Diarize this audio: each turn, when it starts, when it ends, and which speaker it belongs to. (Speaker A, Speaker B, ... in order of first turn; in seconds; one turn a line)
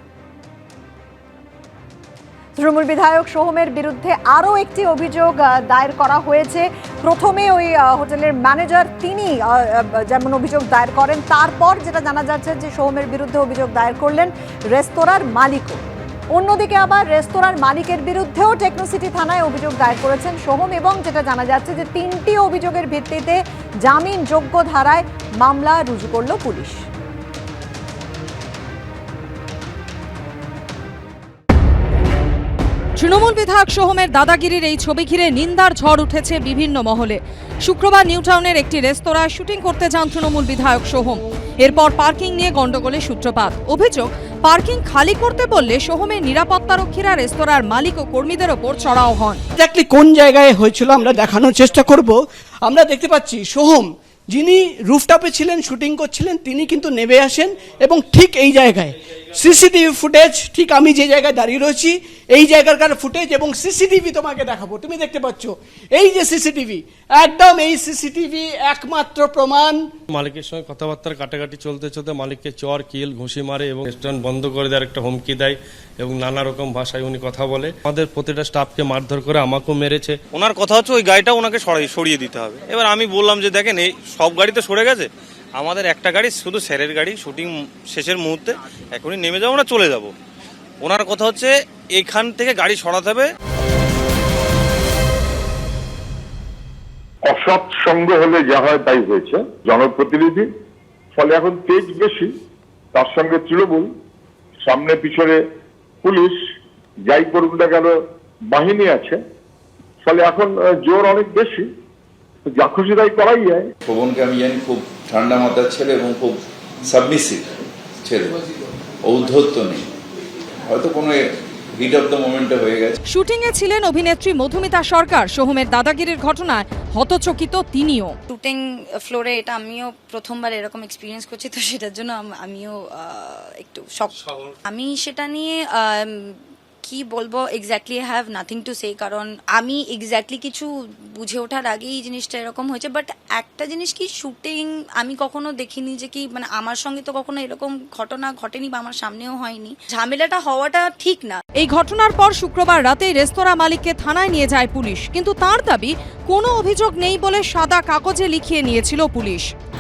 Speaker A: 2.6-15.8
Speaker A: 16.3-26.8
Speaker B: 33.0-49.4
Speaker C: 49.5-69.9
Speaker D: 70.2-75.5
Speaker D: 76.0-80.1
Speaker E: 80.3-90.1
Speaker E: 90.8-93.3
Speaker F: 97.2-100.5
Speaker F: 101.2-102.3
Speaker F: 102.9-103.9
Speaker F: 104.7-105.4
Speaker F: 106.0-106.3
Speaker F: 107.1-107.9
Speaker F: 108.5-109.2
Speaker F: 110.0-111.6
Speaker F: 112.5-113.6
Speaker G: 113.8-118.4
Speaker G: 119.0-119.9
Speaker G: 120.7-121.2
Speaker G: 121.8-123.0
Speaker B: 123.1-128.1
Speaker H: 128.3-151.4
Speaker B: 151.6-159.5